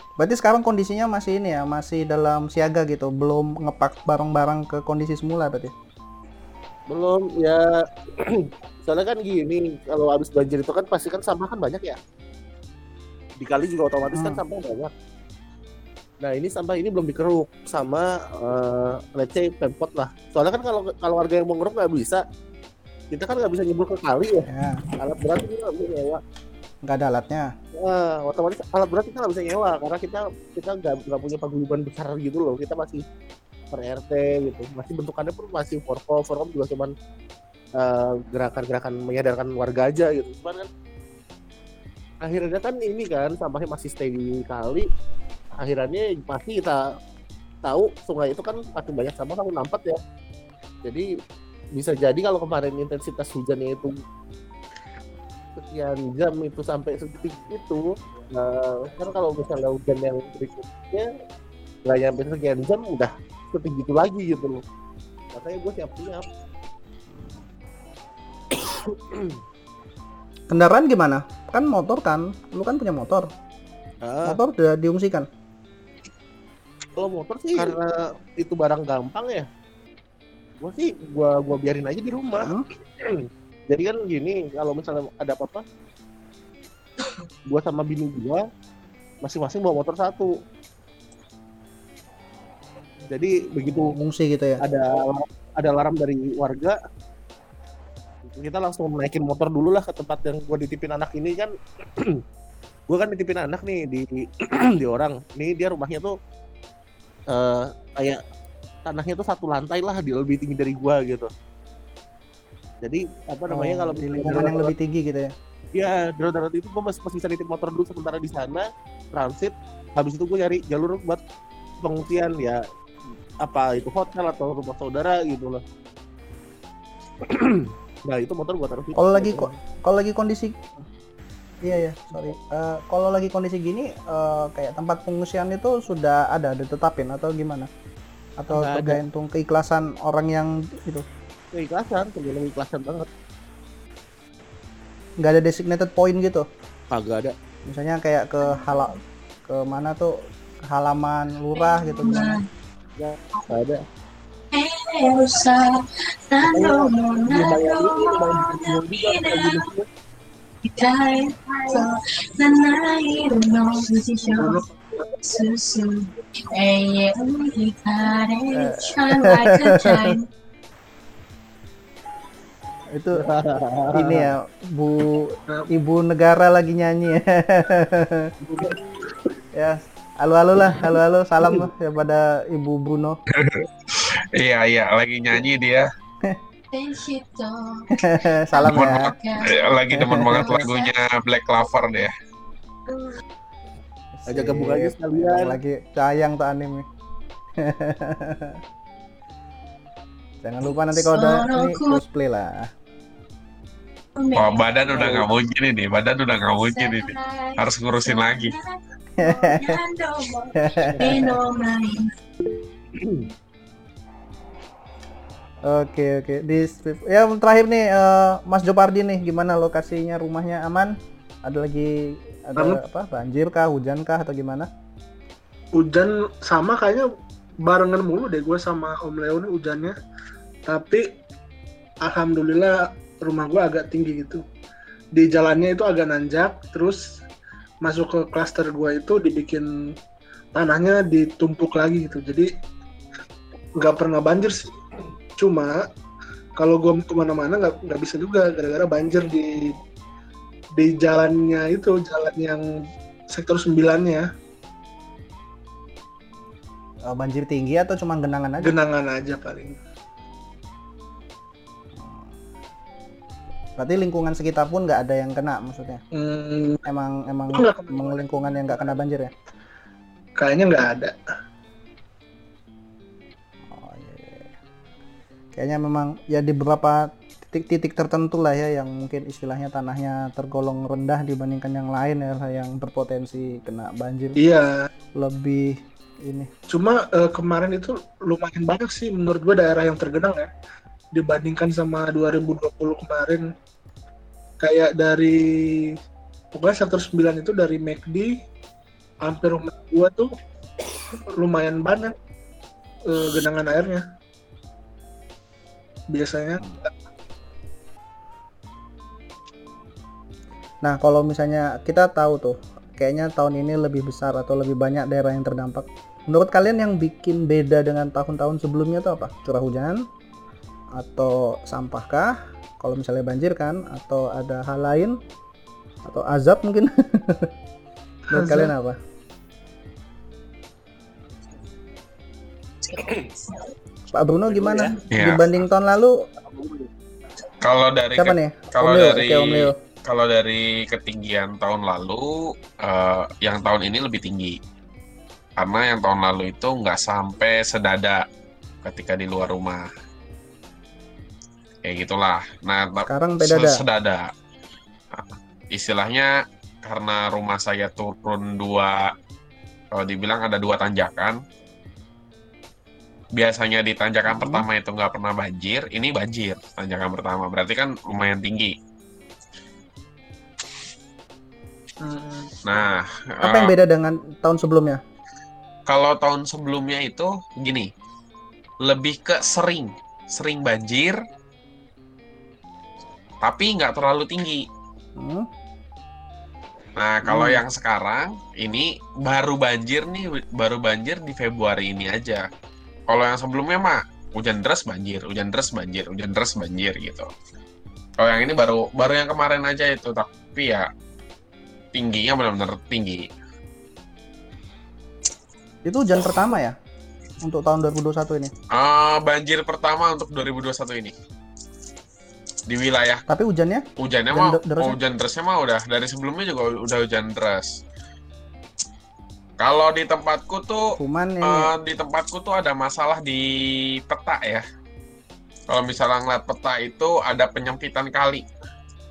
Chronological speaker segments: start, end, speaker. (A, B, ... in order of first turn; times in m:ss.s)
0:00.2-0:05.7 A
0:06.9-0:12.0 B
0:13.4-0:14.9 B
0:14.1-0:14.4 A
0:16.2-0:22.2 B
0:23.1-0:24.5 B
0:24.5-0:24.8 A
0:25.0-0:26.2 B
0:26.8-0:27.5 A
0:27.8-0:33.0 B
0:33.7-0:36.9 B
0:37.8-0:40.7 B
0:42.2-0:44.9 B
0:45.6-0:46.8 B
0:47.6-0:50.0 B
0:51.8-0:54.0 B
0:55.7-1:01.1 B
1:01.8-1:04.6 B
1:05.3-1:06.3 B
1:08.6-1:09.3 B
1:10.5-1:13.3 A
1:14.0-1:14.4 B
1:14.3-1:15.3 A
1:17.0-1:19.5 B
1:20.6-1:25.6 B
1:27.5-1:28.4 B
1:29.2-1:30.3 B
1:33.1-1:34.0 B
1:33.8-1:34.6 A
1:34.6-1:36.8 B
1:38.4-1:42.2 B
1:42.9-1:46.1 B
1:47.3-1:48.2 B
1:48.8-1:51.3 B
1:52.8-1:54.7 B
1:53.5-1:55.3 A
1:55.7-2:01.2 B
2:01.8-2:02.6 B
2:03.4-2:05.6 B
2:07.2-2:09.6 B
2:09.0-2:10.7 A
2:11.6-2:17.7 A
2:18.4-2:21.0 A
2:18.5-2:19.0 B
2:21.5-2:23.1 B
2:25.2-2:26.5 A
2:26.9-2:27.3 B
2:27.6-2:32.4 A
2:31.6-2:32.5 C
2:33.0-2:33.8 B
2:34.5-2:39.7 C
2:36.4-2:39.8 B
2:40.6-2:44.6 C
2:45.2-2:50.3 C
2:48.5-2:50.1 A
2:52.9-2:53.3 A
2:53.1-2:54.3 B
2:53.9-2:58.3 A
2:58.5-2:58.7 D
2:59.5-3:03.2 A
3:03.4-3:05.9 E
3:06.7-3:09.6 C
3:07.9-3:09.1 A
3:08.6-3:12.1 E
3:09.9-3:10.7 A
3:10.3-3:10.9 C
3:12.9-3:13.2 C
3:14.2-3:16.9 A
3:14.3-3:15.6 B
3:17.6-3:18.6 A
3:20.4-3:22.7 A
3:21.0-3:22.0 C
3:24.2-3:25.2 C
3:24.3-3:28.5 E
3:26.6-3:28.6 C
3:29.2-3:29.8 A
3:29.2-3:32.1 C
3:30.5-3:31.4 A
3:35.6-3:44.7 A
3:42.6-3:42.8 D
3:45.8-3:47.1 D
3:47.6-3:49.9 D
3:50.6-3:51.1 D
3:52.0-3:54.4 D
3:55.1-3:57.0 D
3:57.8-3:59.7 D
4:00.5-4:02.5 D
4:03.8-4:04.8 D
4:05.4-4:05.8 D
4:06.6-4:09.7 D
4:10.8-4:12.6 D
4:13.3-4:14.2 D
4:17.1-4:18.8 A
4:18.6-4:19.8 D
4:22.0-4:22.3 A
4:23.8-4:26.0 A
4:26.1-4:26.8 D
4:26.8-4:29.3 A
4:27.5-4:29.0 D
4:30.4-4:31.2 D
4:33.7-4:34.5 A
4:35.5-4:44.4 A
4:44.4-4:44.9 D
4:45.2-4:46.5 A
4:46.7-4:50.5 D
4:51.1-4:53.4 D
4:54.6-4:55.9 D
4:56.5-4:58.3 D
4:59.2-5:00.3 D
5:01.2-5:02.2 D
5:03.0-5:04.0 D
5:06.1-5:06.7 D
5:10.8-5:20.0 A
5:21.0-5:25.2 A
5:26.0-5:27.5 A
5:28.3-5:28.7 D
5:28.3-5:29.0 A
5:33.0-5:33.3 B
5:34.1-5:36.2 A
5:34.5-5:34.9 B
5:35.1-5:35.6 E
5:36.4-5:36.9 B
5:37.6-5:44.6 E
5:38.2-5:39.7 A
5:45.6-5:48.2 E
5:48.8-5:49.9 E
5:51.8-5:54.3 E
5:53.0-5:53.8 A
5:55.1-5:56.3 E
5:56.8-5:59.1 E
5:59.9-6:01.4 E
6:03.4-6:08.7 E
6:04.3-6:04.6 A
6:12.0-6:12.5 D
6:12.6-6:13.7 E
6:13.4-6:15.0 A
6:15.9-6:17.9 E
6:18.8-6:21.2 E
6:23.4-6:24.6 E
6:25.2-6:25.5 A
6:27.0-6:32.4 E
6:27.2-6:27.6 A
6:33.1-6:37.3 E
6:38.2-6:40.9 E
6:41.9-6:43.3 E
6:45.8-6:46.8 A
6:47.4-6:48.5 A
6:48.7-6:51.1 E
6:52.7-6:53.2 E
6:53.3-6:55.0 A
6:54.0-6:57.8 E
6:59.6-7:00.9 E
7:00.9-7:01.7 A
7:01.4-7:04.6 E
7:05.7-7:08.4 E